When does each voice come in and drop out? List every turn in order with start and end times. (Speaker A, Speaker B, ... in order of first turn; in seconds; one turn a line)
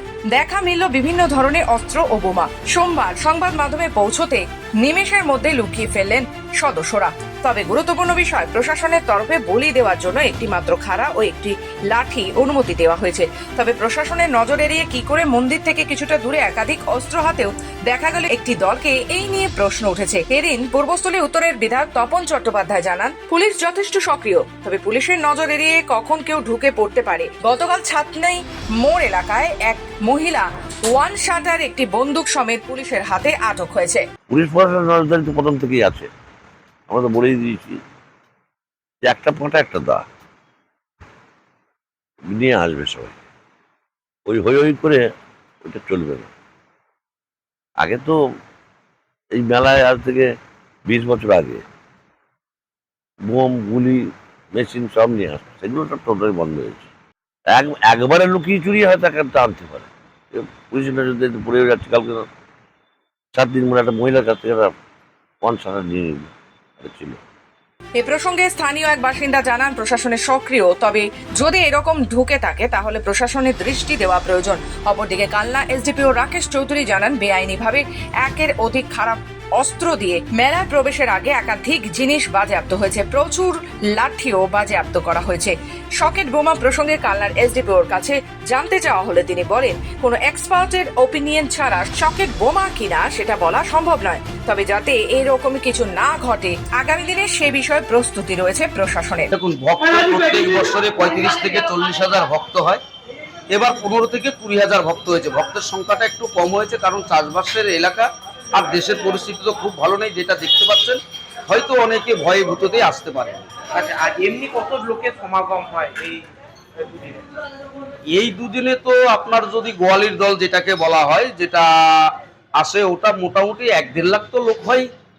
Speaker A: 0.3-34.0
Speaker B: 34.3-36.1
Speaker B: 36.9-37.8
Speaker B: 39.0-40.1
Speaker B: 42.3-43.2
Speaker B: 44.3-45.1
Speaker B: 45.6-46.3
Speaker B: 47.8-48.2
Speaker B: 49.3-50.3
Speaker B: 50.9-51.6
Speaker B: 53.2-56.9
Speaker B: 57.5-62.3
Speaker B: 63.3-64.7
Speaker B: 65.4-67.2
Speaker A: 68.0-99.3
Speaker C: 99.3-102.8
Speaker C: 103.5-113.5
Speaker D: 113.7-116.3
Speaker D: 116.8-117.2
Speaker C: 118.1-124.9